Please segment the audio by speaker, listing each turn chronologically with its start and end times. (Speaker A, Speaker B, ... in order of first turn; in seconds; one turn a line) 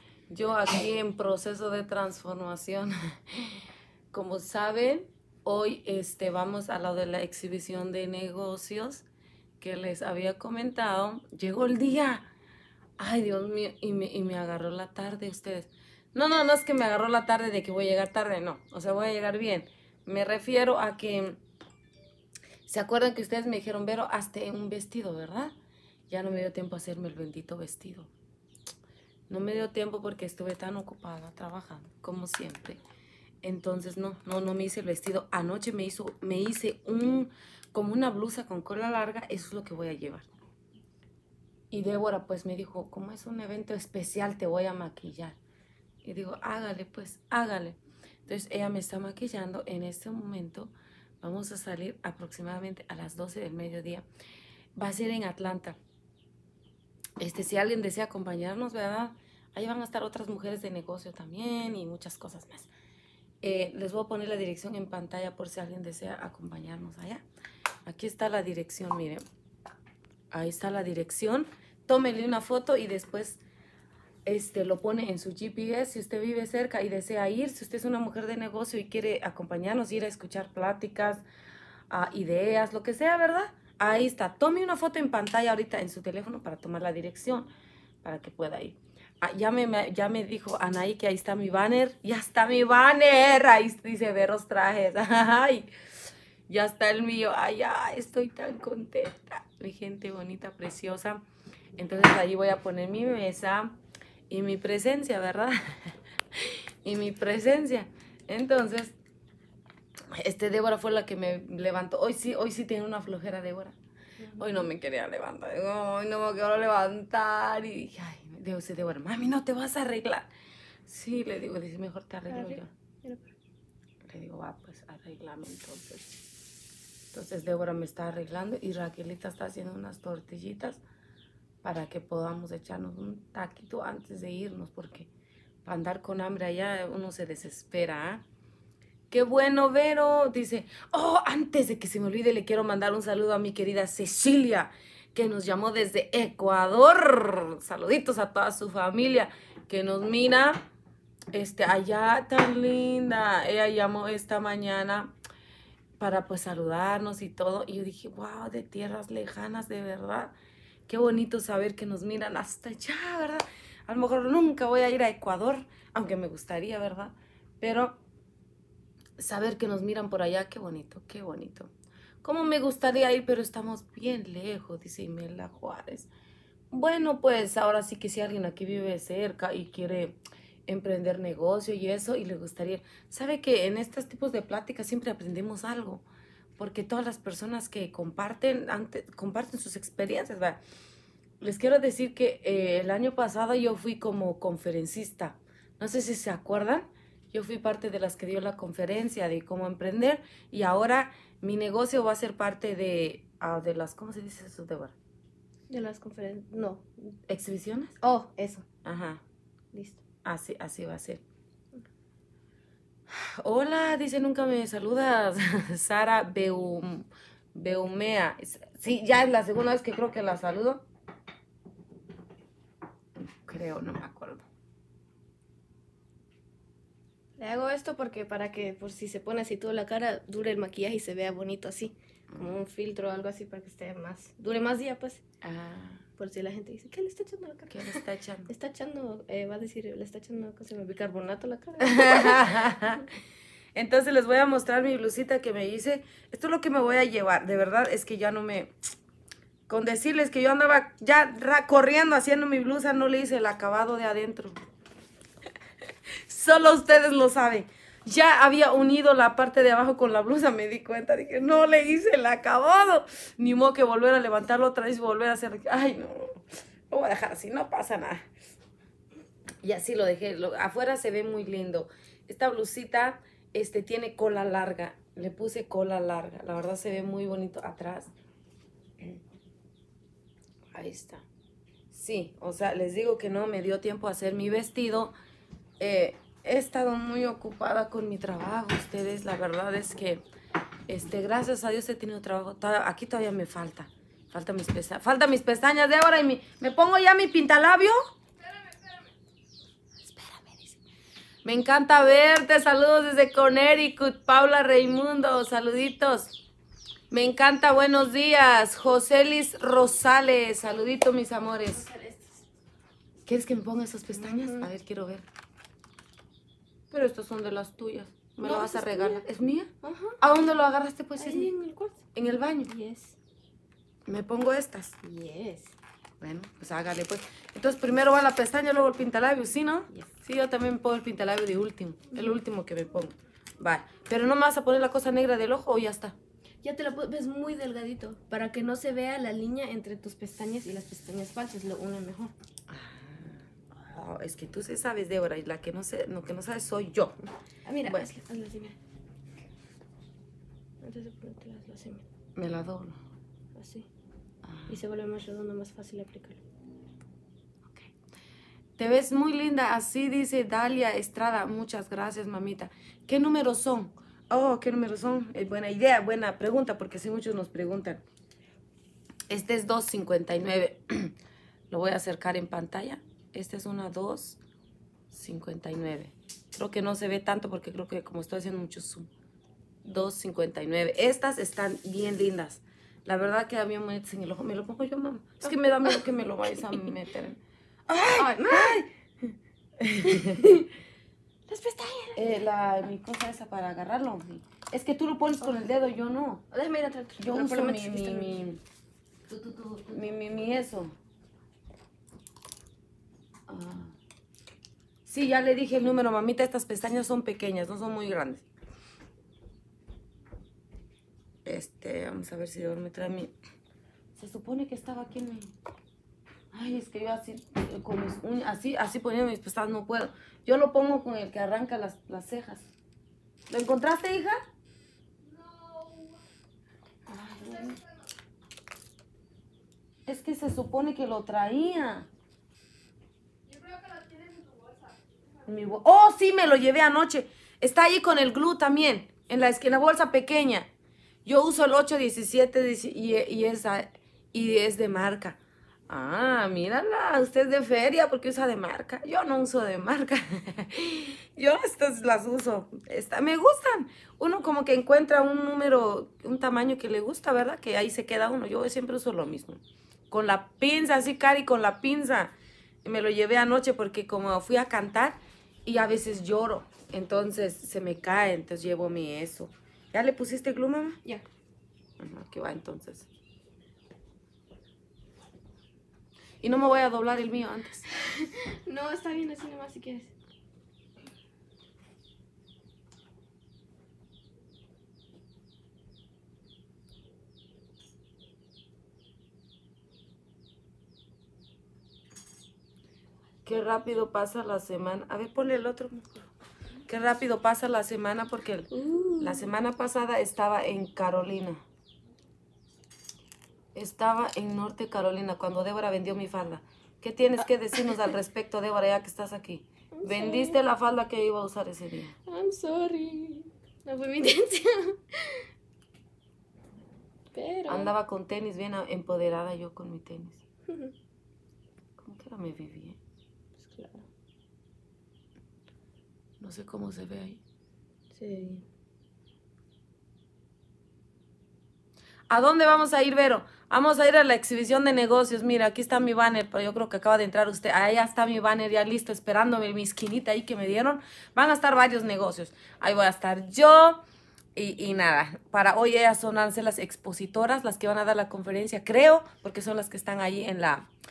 Speaker A: 0.3-3.6
Speaker A: 4.1-9.1
Speaker A: 9.6-12.3
Speaker A: 13.0-21.4
Speaker A: 22.7-25.5
Speaker A: 26.1-28.1
Speaker A: 29.3-32.8
Speaker A: 33.4-40.3
Speaker A: 41.7-45.4
Speaker A: 46.0-54.0
Speaker A: 54.8-55.8
Speaker A: 57.2-62.7
Speaker A: 63.4-67.2
Speaker A: 67.8-69.2
Speaker A: 70.3-73.4
Speaker A: 74.2-81.2
Speaker A: 81.9-87.5
Speaker A: 88.0-95.7
Speaker A: 96.5-101.2
Speaker A: 101.8-103.8
Speaker A: 104.3-109.0
Speaker A: 110.1-113.8
Speaker B: 114.2-114.7
Speaker A: 114.4-120.3
Speaker A: 120.9-122.7
Speaker B: 122.3-123.3
Speaker A: 124.1-126.1
Speaker A: 127.1-130.8
Speaker A: 131.6-135.1
Speaker A: 135.7-138.2
Speaker A: 139.1-150.6
Speaker A: 151.3-155.1
Speaker A: 156.0-160.3
Speaker A: 160.9-168.0
Speaker A: 169.2-171.7
Speaker A: 172.2-176.1
Speaker A: 176.7-186.0
Speaker A: 186.6-190.6
Speaker A: 191.4-204.9
Speaker B: 205.7-206.9
Speaker A: 207.3-208.0
Speaker B: 208.0-208.7
Speaker A: 208.8-209.2
Speaker B: 209.7-210.0
Speaker A: 210.2-211.2
Speaker A: 213.1-220.8
Speaker A: 223.2-224.4
Speaker B: 227.4-235.2
Speaker A: 235.4-236.1
Speaker B: 236.2-243.0
Speaker A: 237.7-238.5
Speaker A: 241.8-243.1
Speaker A: 243.8-248.7
Speaker A: 249.7-254.6
Speaker A: 256.3-266.4
Speaker A: 266.9-268.3
Speaker A: 269.6-278.1
Speaker A: 280.7-281.2
Speaker A: 281.9-285.1
Speaker A: 285.8-290.2
Speaker A: 290.9-298.0
Speaker A: 300.1-300.8
Speaker A: 301.4-306.4
Speaker A: 307.1-311.9
Speaker B: 311.8-312.5
Speaker A: 313.3-315.2
Speaker B: 314.2-314.7
Speaker A: 316.9-321.5
Speaker B: 318.4-319.2
Speaker B: 319.8-320.2
Speaker B: 321.2-322.1
Speaker A: 322.1-322.7
Speaker B: 322.7-323.2
Speaker A: 324.1-325.0
Speaker B: 325.0-325.7
Speaker A: 326.2-336.2
Speaker B: 336.6-342.3
Speaker A: 342.7-347.1
Speaker B: 347.6-348.8
Speaker B: 350.8-352.1
Speaker A: 352.4-353.0
Speaker B: 353.6-353.9
Speaker A: 354.4-354.8
Speaker B: 354.7-356.4
Speaker A: 358.8-368.0
Speaker A: 369.3-371.1
Speaker A: 371.7-374.4
Speaker A: 375.1-379.1
Speaker A: 379.8-390.7
Speaker B: 388.1-388.8
Speaker B: 390.2-390.6
Speaker B: 391.5-392.5
Speaker A: 392.1-396.4
Speaker B: 396.5-398.4
Speaker A: 397.2-398.6
Speaker A: 399.3-400.9
Speaker A: 403.5-403.9
Speaker A: 405.1-408.4
Speaker A: 411.4-413.3
Speaker A: 414.2-415.5
Speaker A: 416.5-422.7
Speaker A: 423.5-424.4
Speaker A: 427.1-427.8
Speaker A: 430.1-432.1
Speaker A: 435.5-440.7
Speaker A: 441.2-445.4
Speaker A: 445.9-462.3
Speaker A: 462.8-471.0
Speaker A: 472.0-473.1
Speaker A: 476.4-477.9
Speaker B: 477.9-480.1
Speaker A: 493.4-496.2
Speaker A: 496.9-501.6
Speaker B: 498.7-499.5
Speaker A: 503.8-512.1
Speaker B: 509.9-510.6
Speaker B: 512.3-515.5
Speaker B: 517.3-517.9
Speaker A: 517.7-520.4
Speaker B: 520.7-520.9
Speaker A: 522.0-523.0
Speaker B: 523.6-524.1
Speaker A: 526.4-527.4
Speaker B: 528.1-528.6
Speaker A: 532.3-544.0
Speaker A: 544.5-550.9